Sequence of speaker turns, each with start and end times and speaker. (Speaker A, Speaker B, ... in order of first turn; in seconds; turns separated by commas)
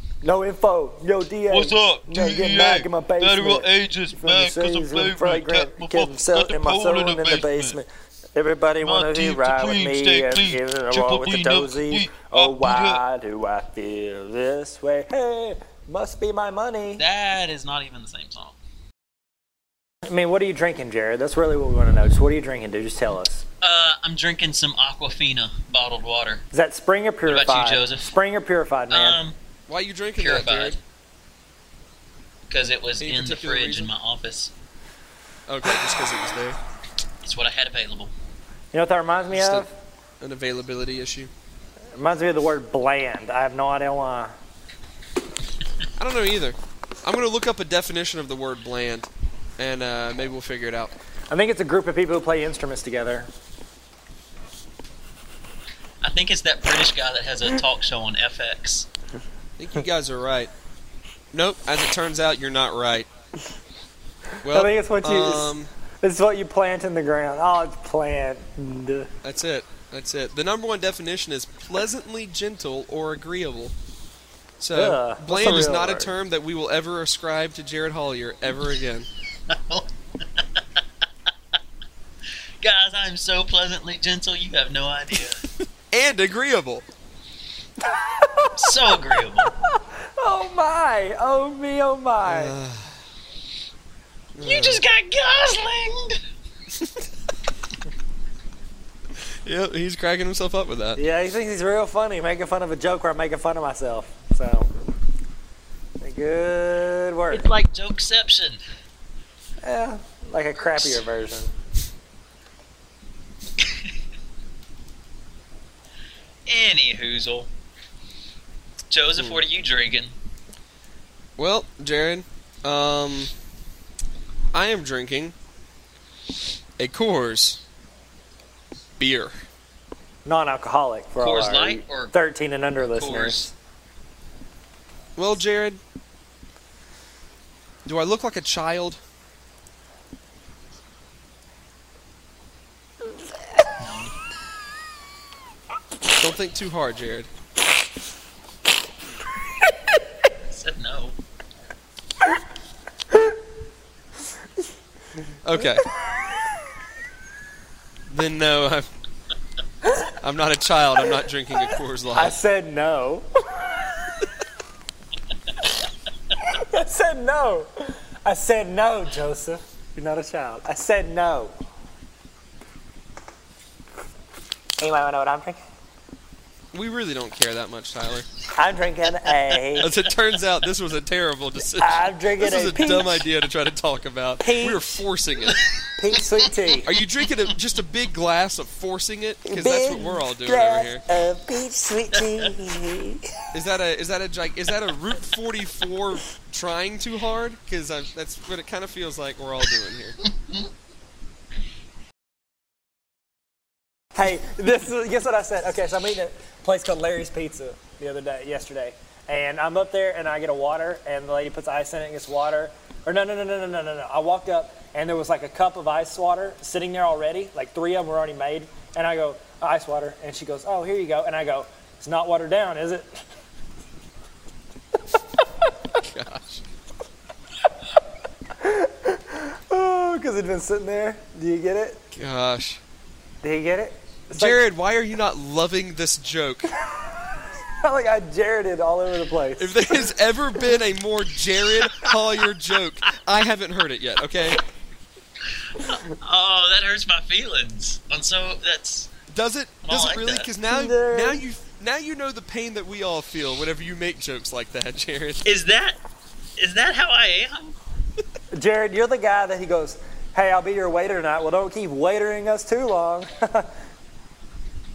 Speaker A: 0.2-17.1, Speaker B: 1.5-7.8, Speaker B: 8.8-13.0, Speaker B: 17.0-18.6, Speaker A: 20.1-23.4, Speaker B: 23.6-26.4, Speaker A: 26.5-29.2, Speaker B: 27.3-28.1, Speaker B: 28.9-29.4, Speaker C: 29.7-30.8, Speaker B: 30.2-30.8, Speaker B: 32.5-34.5, Speaker C: 33.0-33.9, Speaker C: 35.5-36.6, Speaker B: 37.2-38.1, Speaker A: 38.7-39.7, Speaker C: 39.3-39.7, Speaker C: 40.2-41.3, Speaker A: 41.9-44.3, Speaker C: 46.0-50.9, Speaker A: 51.3-53.3, Speaker B: 56.0-58.9, Speaker C: 59.6-60.5, Speaker C: 61.3-63.1, Speaker C: 64.4-65.7, Speaker A: 64.5-69.1, Speaker C: 69.2-73.7, Speaker C: 74.6-79.1, Speaker A: 74.7-76.2, Speaker B: 79.5-80.6, Speaker B: 82.6-85.4, Speaker C: 85.9-86.9, Speaker A: 87.8-92.5, Speaker B: 88.5-89.5, Speaker C: 92.2-93.0, Speaker C: 94.3-94.8, Speaker B: 94.4-96.2, Speaker C: 96.7-97.1, Speaker C: 99.5-101.0, Speaker A: 101.0-104.7, Speaker A: 106.0-107.5, Speaker B: 107.3-108.6, Speaker A: 109.6-111.5, Speaker B: 110.8-111.0, Speaker B: 116.5-117.5, Speaker B: 118.9-120.1, Speaker C: 119.2-119.4, Speaker C: 121.4-123.3, Speaker C: 124.5-125.3, Speaker C: 126.8-127.6, Speaker C: 129.0-129.4, Speaker A: 130.2-133.5, Speaker B: 131.2-132.1, Speaker B: 132.8-133.5, Speaker C: 135.2-135.8, Speaker C: 137.8-139.0, Speaker B: 143.8-144.1, Speaker C: 146.1-147.3, Speaker B: 150.5-151.2, Speaker C: 155.4-155.9, Speaker C: 158.1-158.9, Speaker C: 160.2-162.4, Speaker A: 162.1-164.3, Speaker A: 166.4-171.5, Speaker A: 174.8-175.6, Speaker C: 176.7-178.3, Speaker A: 178.6-179.9, Speaker C: 179.8-185.6, Speaker A: 181.6-183.3, Speaker A: 184.4-185.1, Speaker A: 186.0-186.9, Speaker C: 186.8-191.0, Speaker A: 189.4-193.3, Speaker B: 192.2-192.5, Speaker C: 193.5-200.2, Speaker A: 204.1-223.2, Speaker C: 226.0-226.6, Speaker A: 228.6-232.0, Speaker C: 232.1-232.8, Speaker A: 233.4-234.6, Speaker C: 234.3-236.7, Speaker A: 236.8-240.1, Speaker C: 239.6-244.6, Speaker B: 245.7-249.1, Speaker C: 249.3-255.4, Speaker B: 249.9-250.5, Speaker A: 250.7-251.4, Speaker B: 255.4-256.0, Speaker B: 256.6-257.8, Speaker A: 258.5-263.7